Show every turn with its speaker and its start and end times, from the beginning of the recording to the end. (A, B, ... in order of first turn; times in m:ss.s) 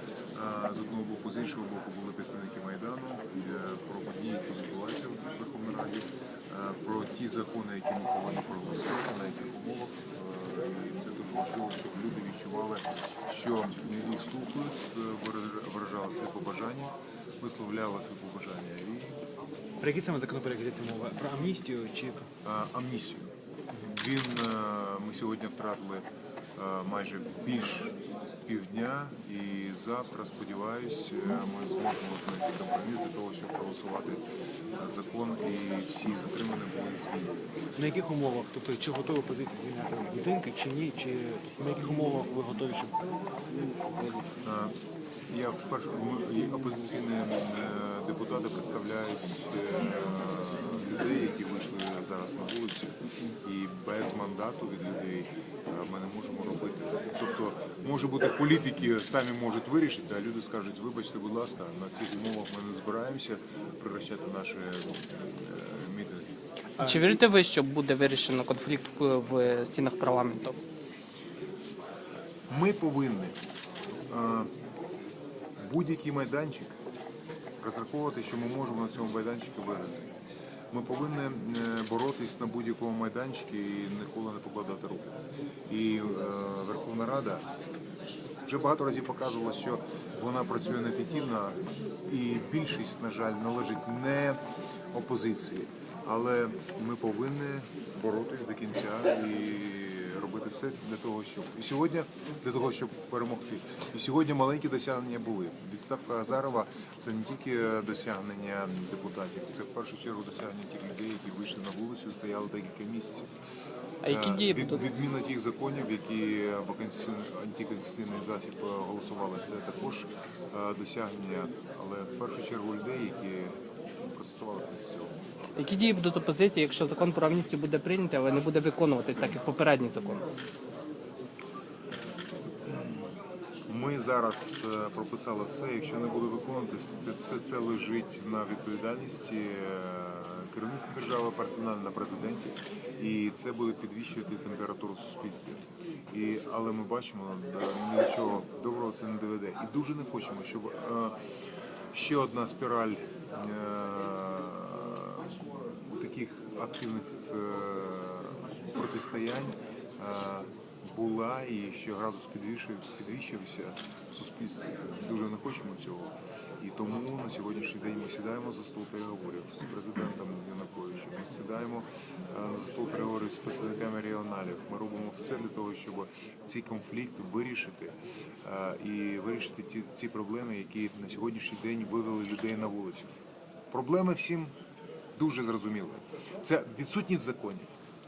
0:00.3-0:19.2 A
0:19.8-0:22.3 B
0:22.4-0:23.3 A
0:23.8-0:34.2 A
0:34.7-0:37.4 A
0:37.8-0:43.0 B
0:43.5-0:44.3 B
0:44.4-0:44.8 A
0:45.3-1:06.3 A
1:06.8-1:10.6 C
1:12.5-1:13.4 A
1:14.1-1:14.5 A
1:15.6-1:16.8 A
1:17.6-1:20.0 A
1:20.7-1:25.1 A
1:25.7-1:27.4 A
1:28.4-1:34.4 A
1:34.9-1:53.3 A
1:54.0-1:54.8 C
1:54.0-2:05.6 A
2:05.6-2:10.2 C
2:12.6-2:13.1 A
2:13.7-2:31.2 A
2:31.9-3:03.1 A
3:03.7-3:04.5 A
3:05.2-3:07.7 A